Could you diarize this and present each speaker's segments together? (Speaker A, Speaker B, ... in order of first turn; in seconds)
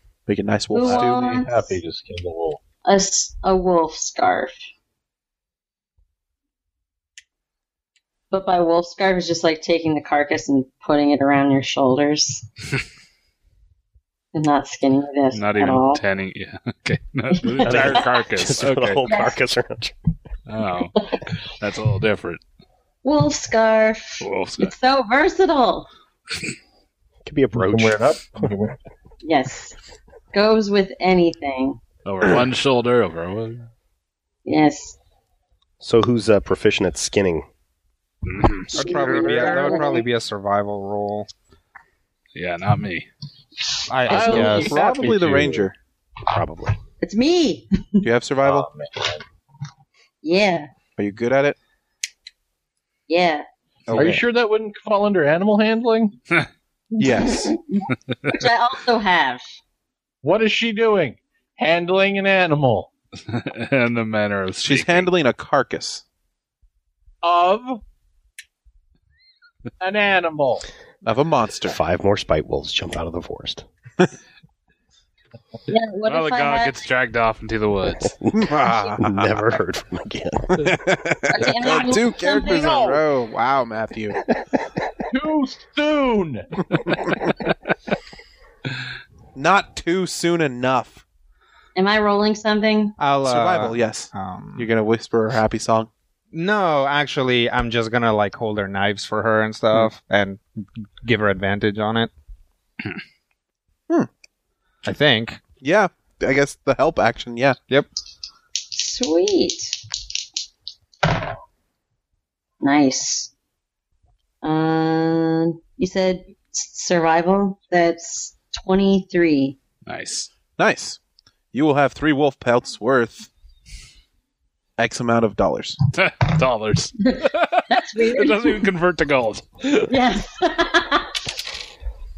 Speaker A: 0.3-1.4, 44.1-45.7, 48.0-48.7, 51.0-51.6, 53.9-54.2, 57.0-57.5, 64.6-66.0, 71.0-71.8, 78.3-79.4, 80.6-84.2, 89.3-91.0, 93.2-95.9, 105.6-107.6, 120.6-121.0, 121.5-123.3, 124.8-125.8
Speaker B: 0.7-1.8, 2.8-4.6, 8.3-12.4, 14.3-16.0, 17.3-18.0, 19.1-19.3, 21.0-21.2, 23.0-25.9, 29.2-29.8, 30.3-31.8, 34.4-35.0, 38.7-40.0, 47.0-48.0, 50.2-50.7, 53.1-53.5, 56.9-59.6, 75.7-76.8, 81.3-82.7, 91.7-93.0, 108.7-109.8, 112.6-113.3, 114.4-119.6, 127.1-128.7, 129.8-131.2
Speaker C: 0.8-2.6, 27.5-28.8, 38.8-40.0, 44.0-45.7, 48.4-49.2, 53.9-56.2, 60.2-62.9, 67.2-67.8, 69.8-70.6, 82.3-83.0, 85.1-86.5
Speaker D: 15.3-19.1, 20.5-22.4, 24.2-24.7, 32.0-33.7, 38.2-38.7, 42.3-43.1, 63.3-65.1, 76.0-78.2, 119.8-120.3, 125.9-129.9
Speaker E: 17.6-19.9, 27.2-28.5, 35.8-37.5, 46.3-46.8, 71.7-73.6, 79.0-80.7, 84.2-84.8
Speaker F: 38.7-41.3, 43.9-44.8, 53.9-54.2, 93.0-94.7, 96.3-102.1, 104.8-105.4